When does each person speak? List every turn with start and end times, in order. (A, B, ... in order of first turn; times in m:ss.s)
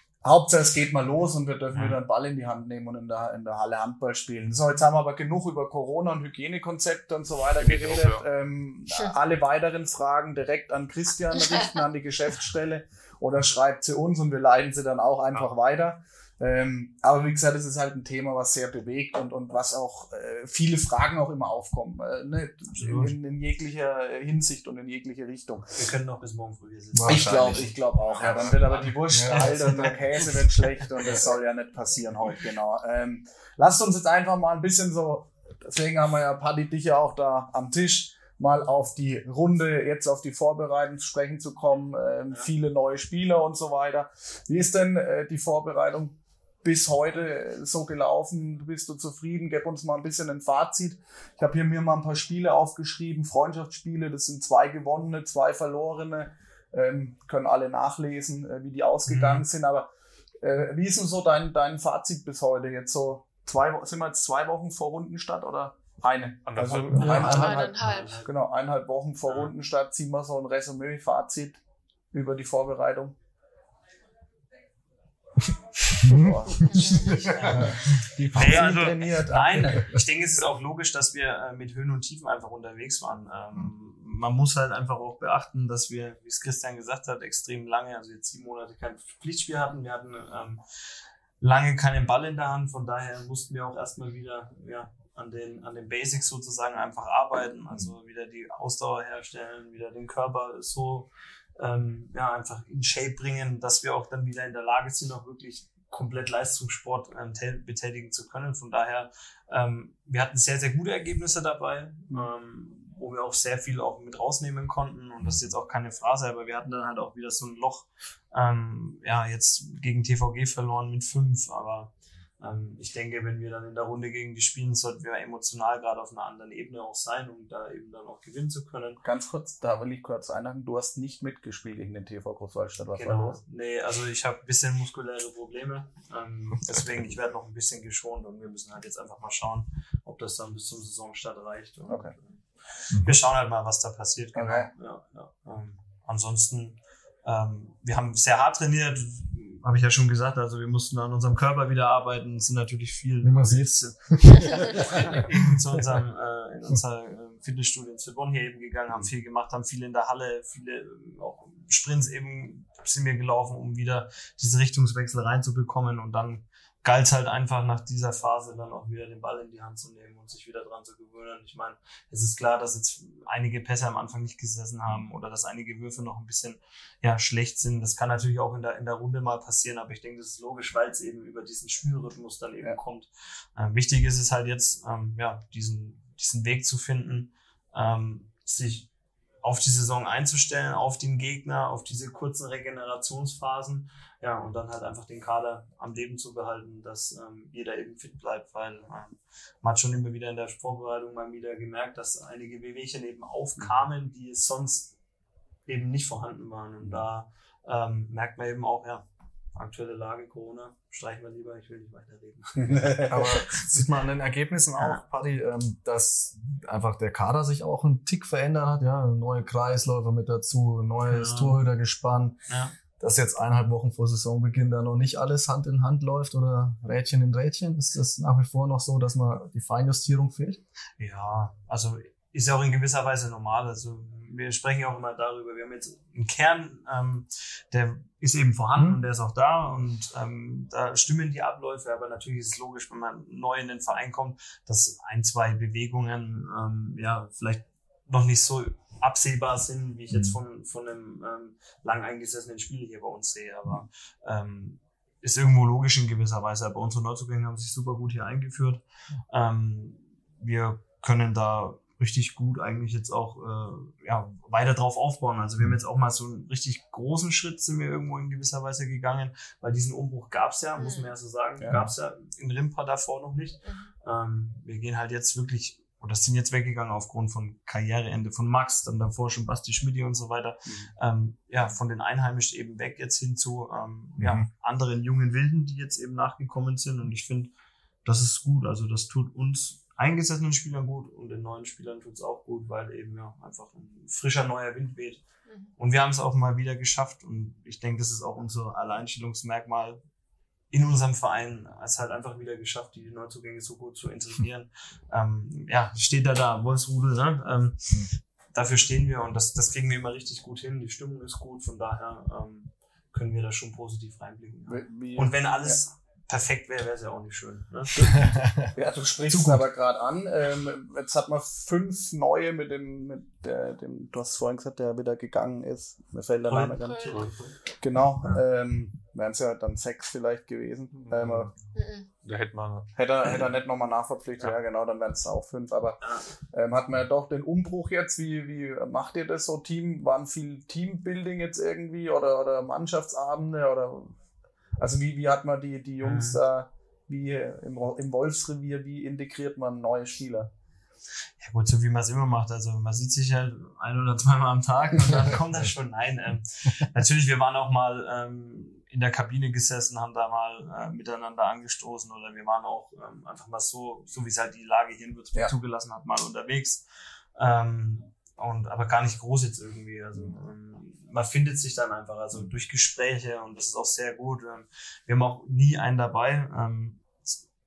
0:00.2-0:25.8 A
0:07.6-0:08.3 B
0:22.7-0:23.1 C
0:25.8-0:30.0 C
0:26.9-0:27.7 D
0:27.0-0:59.9 A
0:29.1-0:29.9 D
0:59.1-0:59.4 C
1:00.4-1:11.6 A
1:06.4-1:07.4 B
1:06.9-1:07.7 D
1:07.0-1:08.2 E
1:07.0-1:08.3 C
1:12.1-1:13.2 A
1:16.0-1:18.6 D
1:16.0-1:16.7 A
1:16.7-1:17.6 E
1:17.1-1:30.6 C
1:17.5-1:20.0 A
1:31.4-2:09.0 C
2:09.0-2:13.4 A
2:12.9-3:08.9 C
2:21.9-2:22.1 A
2:22.9-2:23.2 D
2:24.3-2:24.7 A
2:33.2-2:35.3 D
3:09.4-3:25.0 C
3:25.7-3:33.4 C
3:32.6-3:33.3 A
3:33.0-3:42.4 D
3:34.8-3:35.0 C
3:41.1-3:41.6 C
3:42.5-3:42.7 C
3:43.0-3:50.6 D
3:51.0-4:47.5 C
4:30.8-4:31.1 E
4:31.6-4:31.9 A
4:33.6-4:33.9 E
4:48.0-4:55.2 C
4:55.8-5:00.0 C
5:00.7-5:18.3 C
5:14.7-5:15.8 A
5:18.0-5:27.2 A
5:18.0-5:18.7 D
5:19.3-5:19.6 D
5:26.4-5:27.5 C
5:26.8-5:27.2 E
5:27.8-5:31.5 A
5:31.0-5:31.6 B
5:31.8-5:32.1 E
5:32.2-5:32.9 B
5:33.0-5:36.0 A
5:36.0-5:36.3 C
5:36.5-5:44.1 A
5:44.8-5:50.5 A
5:46.0-5:46.4 C
5:51.4-6:06.8 C
6:07.4-6:17.4 C